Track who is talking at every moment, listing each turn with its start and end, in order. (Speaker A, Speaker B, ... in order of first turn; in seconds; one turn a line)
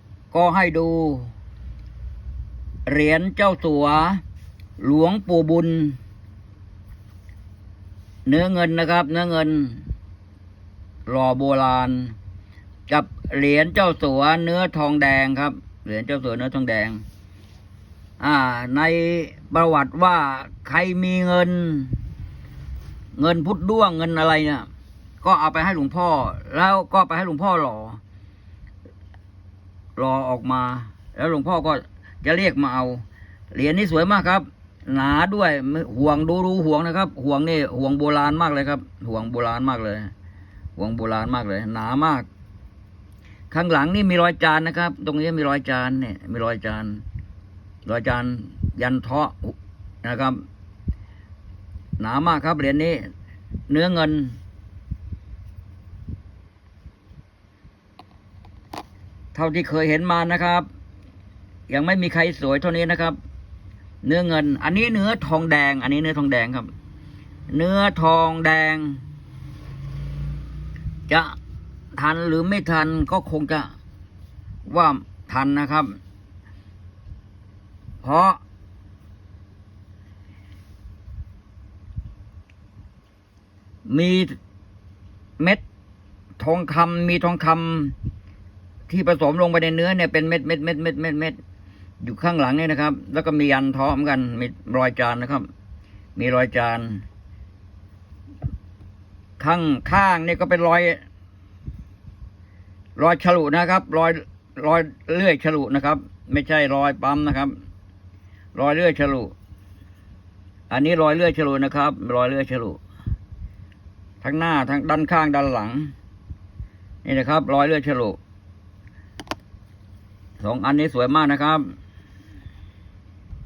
Speaker A: 0.3-1.3
Speaker A: 2.9-4.2
Speaker A: 4.8-6.0
Speaker A: 8.2-9.8
Speaker A: 11.1-12.1
Speaker A: 12.9-17.0
Speaker A: 18.2-22.0
Speaker A: 23.1-24.6
Speaker A: 25.2-28.0
Speaker A: 29.9-40.1
Speaker A: 40.8-42.2
Speaker A: 43.5-47.0
Speaker A: 47.8-50.4
Speaker A: 52.0-53.0
Speaker A: 53.7-54.4
Speaker A: 59.3-60.6
Speaker A: 61.7-63.2
Speaker A: 64.0-66.7
Speaker A: 67.5-69.0
Speaker A: 71.1-71.3
Speaker A: 71.9-73.7
Speaker A: 74.7-76.0
Speaker A: 78.0-78.4
Speaker A: 83.9-84.3
Speaker A: 86.4-87.9
Speaker A: 88.9-91.4
Speaker A: 92.0-95.5
Speaker A: 96.2-97.0
Speaker A: 99.4-101.0
Speaker A: 103.0-107.5
Speaker A: 108.5-109.3
Speaker A: 110.7-112.8
Speaker A: 114.2-115.9
Speaker A: 117.0-118.2
Speaker A: 120.4-121.6